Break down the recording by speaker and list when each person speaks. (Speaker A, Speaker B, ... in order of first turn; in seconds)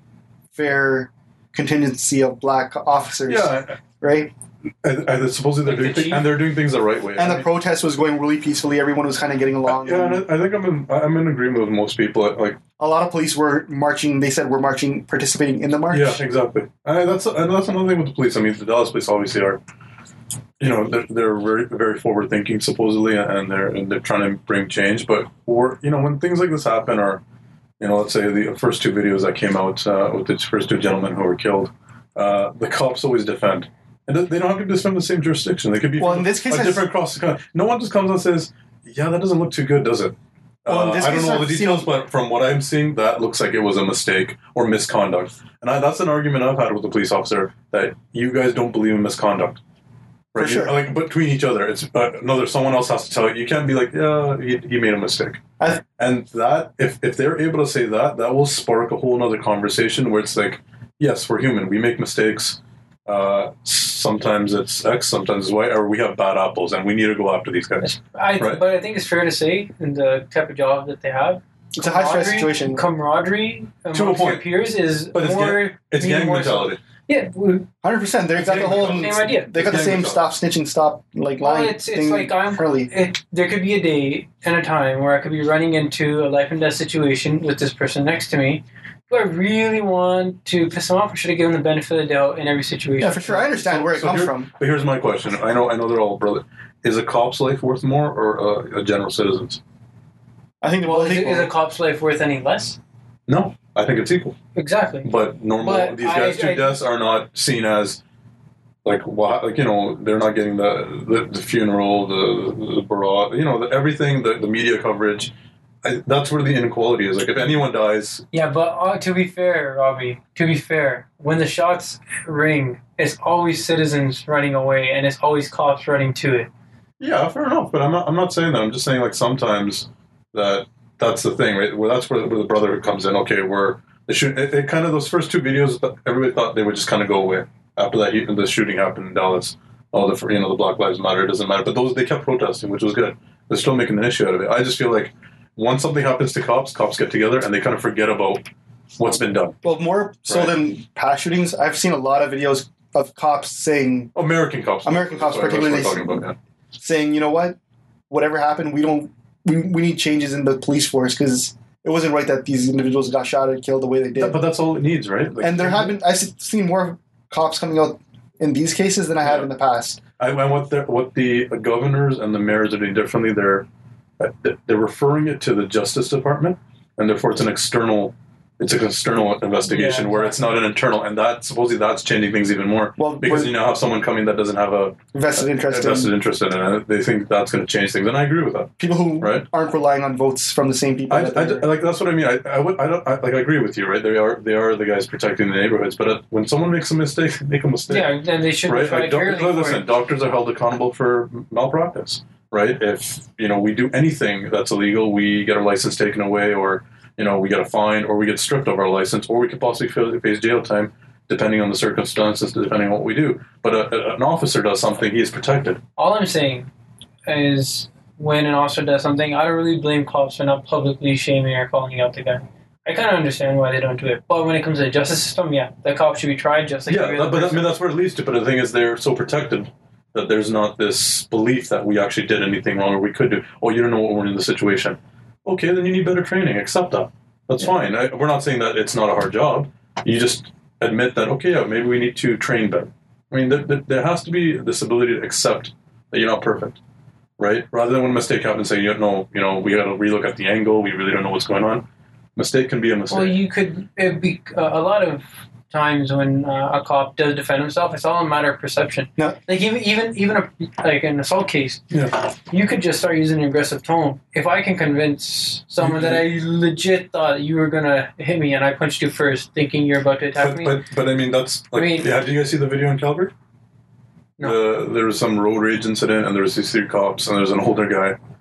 Speaker A: 0.5-4.3, 7.2-10.2, 12.8-16.2, 36.0-36.8, 40.7-41.9, 50.4-50.8, 71.7-72.8, 77.8-82.9, 93.0-94.5, 100.6-101.5, 149.6-154.1, 154.8-156.2, 156.8-157.6, 158.1-164.4, 165.4-170.0, 183.0-183.5, 185.1-186.1, 188.8-191.7
Speaker B: 3.3-3.8, 4.8-7.5, 9.7-12.6, 15.9-19.6, 20.6-27.2, 27.8-49.6, 50.3-55.4, 56.0-67.9, 68.4-68.6, 73.9-74.4, 75.1-76.8, 78.3-80.2, 93.7-99.6, 103.3-104.3, 105.0-108.0, 108.8-115.3, 115.8-118.2, 127.0-148.4, 149.0-149.6, 150.2-150.6, 154.1-156.3, 164.2-165.9, 169.2-169.5, 170.2-173.7, 174.2-189.4, 191.1-215.8, 226.9-246.8, 247.4-251.8, 252.3-253.4, 265.8-266.2, 270.4-273.3, 274.4-278.2
Speaker C: 5.6-6.3, 67.8-77.7, 78.8-79.5, 81.4-93.6, 100.8-102.8, 104.5-106.8, 118.3-126.5, 179.7-180.5, 197.9-199.8, 216.0-216.7, 217.2-227.7, 253.1-261.8, 262.5-270.8, 271.7-272.1